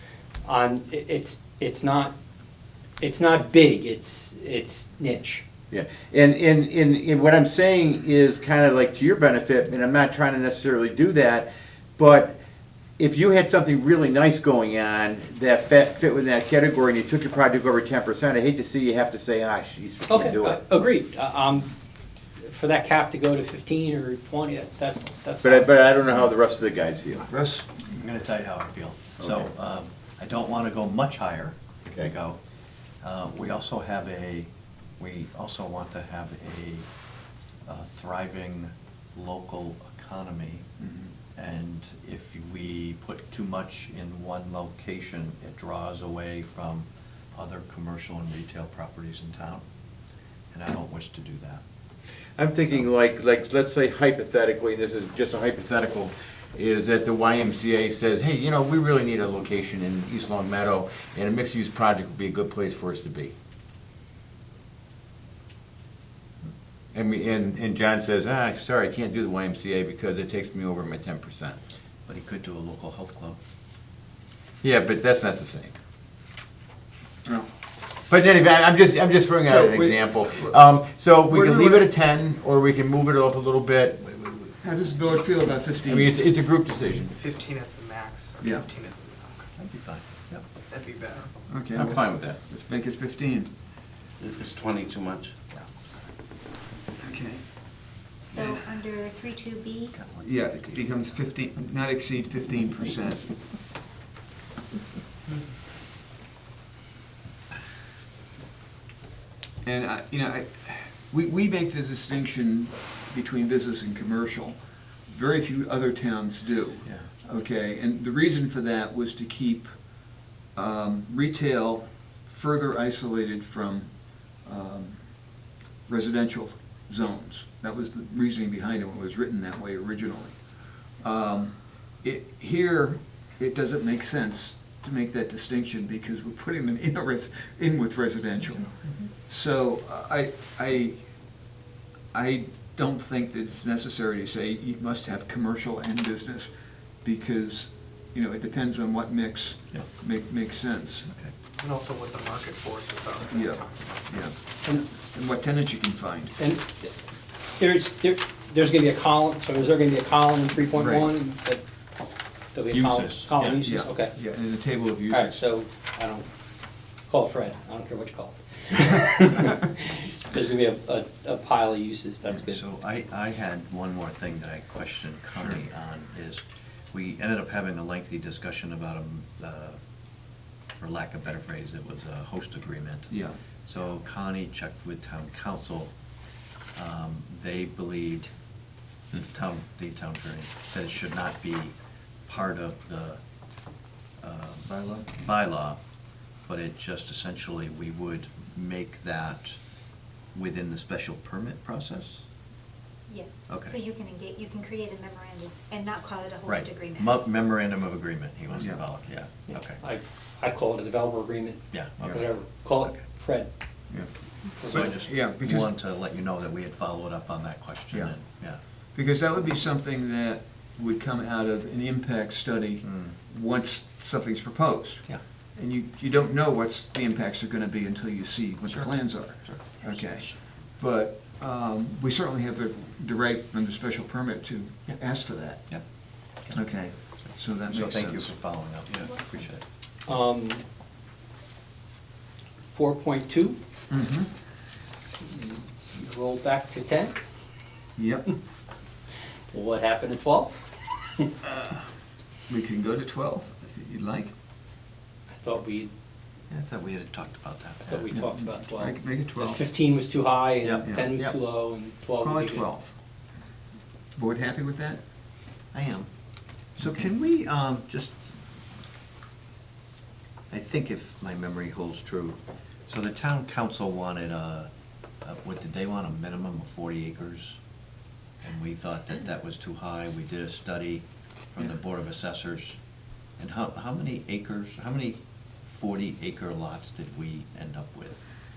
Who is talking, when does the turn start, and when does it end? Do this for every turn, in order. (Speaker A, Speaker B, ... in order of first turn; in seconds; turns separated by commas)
Speaker A: 0.5-2.1, Speaker A: 3.0-5.4, Speaker B: 5.7-12.4, Speaker B: 13.0-20.6, Speaker A: 20.1-21.7, Speaker A: 22.4-25.7, Speaker B: 25.4-27.3, Speaker C: 27.2-28.0, Speaker D: 28.0-32.4, Speaker B: 29.2-29.5, Speaker D: 33.0-36.9, Speaker D: 37.7-40.7, Speaker C: 40.8-41.1, Speaker D: 41.4-49.6, Speaker D: 50.5-51.6, Speaker B: 52.4-63.3, Speaker B: 66.9-71.6, Speaker D: 72.0-73.4, Speaker B: 74.6-75.7, Speaker B: 78.1-84.5, Speaker C: 79.4-80.6, Speaker C: 81.3-81.9, Speaker C: 84.6-86.1, Speaker B: 85.8-87.1, Speaker E: 87.2-89.4, Speaker C: 88.4-88.7, Speaker D: 89.5-90.4, Speaker E: 90.7-91.3, Speaker C: 91.5-92.0, Speaker B: 91.7-92.7, Speaker C: 92.7-93.5, Speaker B: 94.2-95.3, Speaker C: 97.0-97.4, Speaker F: 98.2-100.0, Speaker D: 99.9-100.5, Speaker C: 100.2-103.3, Speaker C: 109.6-114.6, Speaker C: 115.1-119.8, Speaker D: 116.8-117.1, Speaker C: 120.5-123.9, Speaker C: 124.4-125.0, Speaker C: 125.9-130.4, Speaker C: 131.0-141.0, Speaker D: 138.4-139.1, Speaker C: 142.1-146.5, Speaker C: 147.0-151.1, Speaker D: 151.1-151.3, Speaker E: 151.6-153.7, Speaker C: 153.3-156.3, Speaker A: 156.4-156.9, Speaker A: 157.6-161.6, Speaker C: 160.7-161.1, Speaker A: 162.5-164.1, Speaker B: 162.7-163.3, Speaker D: 163.3-163.6, Speaker C: 163.6-165.4, Speaker A: 165.1-166.3, Speaker A: 167.1-172.6, Speaker D: 172.3-179.8, Speaker D: 180.8-185.9, Speaker C: 183.1-183.4, Speaker D: 186.7-188.3, Speaker D: 189.2-191.7, Speaker D: 192.3-193.2, Speaker D: 194.2-195.8, Speaker C: 194.6-195.1, Speaker D: 196.5-199.6, Speaker D: 200.3-202.2, Speaker F: 203.1-207.1, Speaker D: 203.5-203.8, Speaker D: 206.4-209.8, Speaker C: 208.6-208.8, Speaker A: 209.8-213.5, Speaker D: 211.7-213.0, Speaker A: 214.6-214.9, Speaker D: 214.7-218.6, Speaker C: 214.7-215.7, Speaker C: 217.9-218.2, Speaker C: 218.9-235.7, Speaker D: 222.8-223.1, Speaker D: 228.7-230.4, Speaker D: 236.4-239.6, Speaker C: 236.5-238.3, Speaker A: 240.1-240.6, Speaker A: 242.7-243.6, Speaker C: 243.9-244.3, Speaker A: 245.2-247.1, Speaker C: 248.0-248.3, Speaker A: 249.5-250.6, Speaker C: 251.4-251.9, Speaker C: 252.5-254.3, Speaker A: 255.4-255.9, Speaker D: 256.5-258.1, Speaker A: 257.9-262.7, Speaker C: 258.1-259.6, Speaker D: 260.6-261.4, Speaker C: 260.8-261.1, Speaker C: 262.2-262.9, Speaker C: 264.1-265.0, Speaker D: 265.7-266.1, Speaker D: 266.8-268.2, Speaker D: 270.5-274.7, Speaker D: 275.2-277.6, Speaker D: 278.4-282.8, Speaker D: 283.4-288.2